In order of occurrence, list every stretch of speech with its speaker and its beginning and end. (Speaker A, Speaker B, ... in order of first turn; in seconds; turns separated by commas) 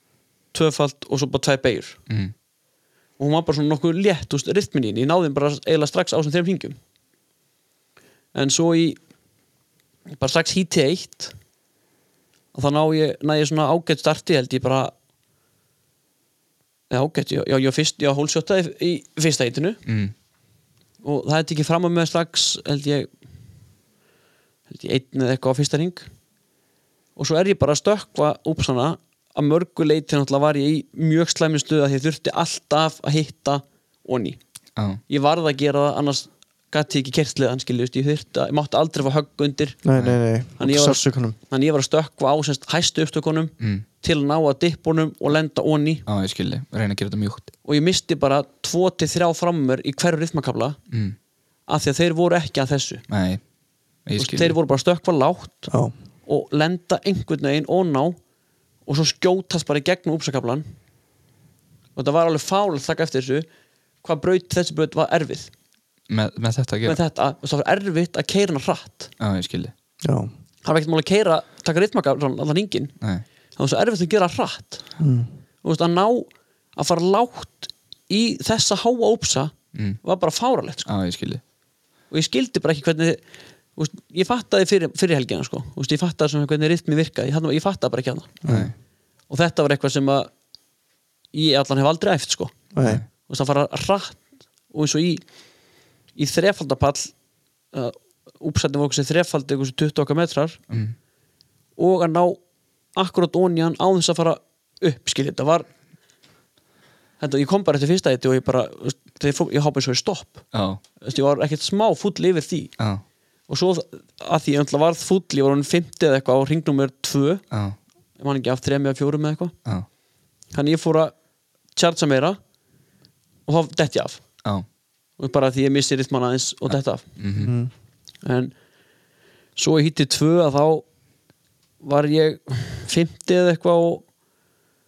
Speaker A: 0.5-2.0, Speaker A: 3.2-6.8, Speaker A: 8.3-9.0, Speaker A: 10.2-11.3, Speaker A: 12.5-14.9, Speaker A: 16.9-19.8, Speaker B: 19.9-20.1, Speaker A: 21.0-23.1, Speaker A: 24.7-26.1, Speaker A: 27.1-34.4, Speaker B: 34.8-35.0, Speaker A: 35.1-39.8, Speaker C: 39.8-41.4, Speaker A: 40.6-46.0, Speaker B: 46.1-47.5, Speaker A: 47.6-50.8, Speaker B: 50.9-51.1, Speaker A: 51.7-53.0, Speaker B: 53.1-53.4, Speaker B: 54.0-54.5, Speaker A: 54.2-55.7, Speaker A: 56.2-58.2, Speaker A: 58.9-60.6, Speaker A: 62.0-63.5, Speaker A: 64.0-65.5, Speaker B: 66.1-67.0, Speaker A: 66.8-69.1, Speaker B: 69.2-69.7, Speaker C: 70.0-70.3, Speaker A: 70.6-72.9, Speaker A: 73.6-74.8, Speaker C: 75.0-75.3, Speaker A: 75.6-80.9, Speaker B: 79.7-80.0, Speaker B: 80.8-81.4, Speaker A: 82.1-83.2, Speaker A: 83.8-88.3, Speaker C: 88.4-88.7, Speaker B: 88.4-88.7, Speaker A: 89.3-90.3, Speaker A: 91.3-92.5, Speaker C: 92.7-93.0, Speaker A: 93.2-95.2, Speaker A: 96.2-97.1, Speaker A: 97.7-100.6, Speaker A: 101.8-102.4, Speaker A: 102.9-105.7, Speaker A: 107.2-110.4, Speaker B: 110.5-110.8, Speaker A: 111.0-112.7, Speaker A: 113.5-117.4, Speaker B: 117.5-117.8, Speaker A: 118.2-119.5, Speaker A: 120.5-121.1, Speaker A: 121.7-122.4, Speaker A: 123.5-124.2, Speaker A: 125.2-127.1, Speaker B: 126.7-127.5, Speaker C: 127.4-127.7, Speaker A: 128.2-128.5, Speaker A: 129.6-130.8, Speaker A: 131.8-134.0